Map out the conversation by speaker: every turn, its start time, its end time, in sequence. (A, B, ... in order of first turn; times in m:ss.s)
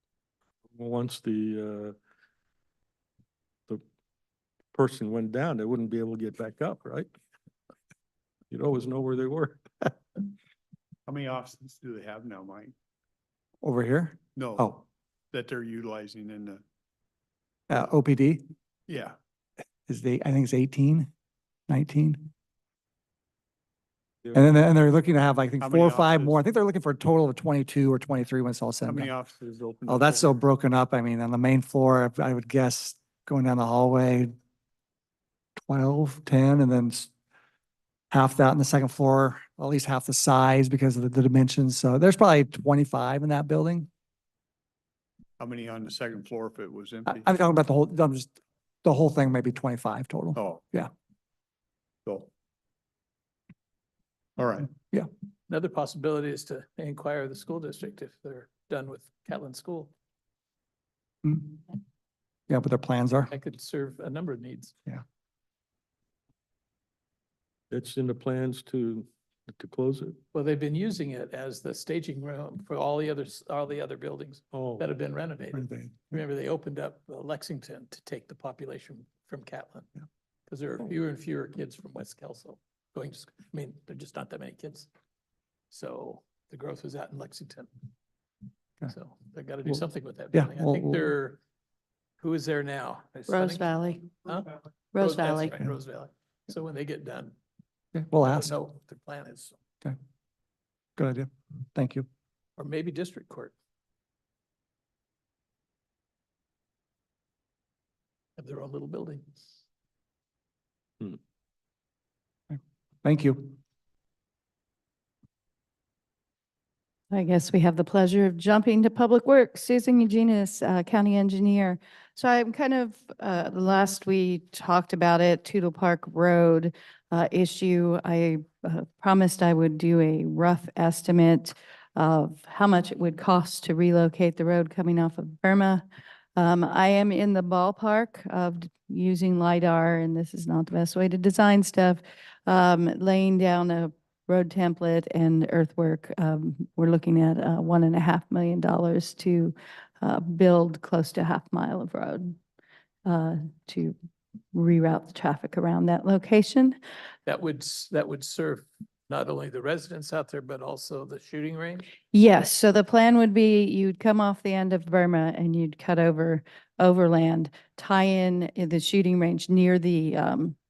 0:00.7-0:01.9 A
0:04.7-0:07.1 A
0:08.5-0:09.9 A
0:11.1-0:12.7 B
0:13.6-0:14.8 C
0:14.4-0:14.7 B
0:15.3-0:16.6 B
0:17.7-0:18.5 C
0:18.9-0:19.2 B
0:19.9-0:21.1 C
0:21.7-0:22.3 C
0:24.3-0:29.1 C
0:25.6-0:26.4 B
0:28.8-0:30.3 B
0:29.9-0:34.3 C
0:35.6-0:37.1 C
0:38.1-0:43.9 C
0:45.4-0:47.3 B
0:47.1-0:50.9 C
0:50.4-0:50.6 B
0:54.4-0:54.7 B
0:55.5-0:59.9 D
1:01.2-1:01.6 C
1:02.5-1:03.3 C
1:03.3-1:04.7 D
1:07.7-1:10.2 A
1:10.3-1:19.9 D
1:14.5-1:14.8 A
1:15.5-1:16.1 C
1:20.5-1:24.9 D
1:25.7-1:27.7 D
1:28.9-1:31.4 D
1:30.3-1:31.1 C
1:32.2-1:37.3 D
1:33.3-1:34.2 E
1:34.9-1:35.6 E
1:37.9-1:38.5 C
1:38.2-1:39.6 D
1:41.0-1:42.0 C
1:42.6-1:43.5 D
1:48.4-1:49.5 D
1:52.5-1:53.6 C
1:57.1-2:15.8 E
2:16.4-2:32.4 E
2:33.0-2:33.9 E
2:34.5-2:36.8 E
2:37.2-2:41.8 D
2:42.1-2:50.6 E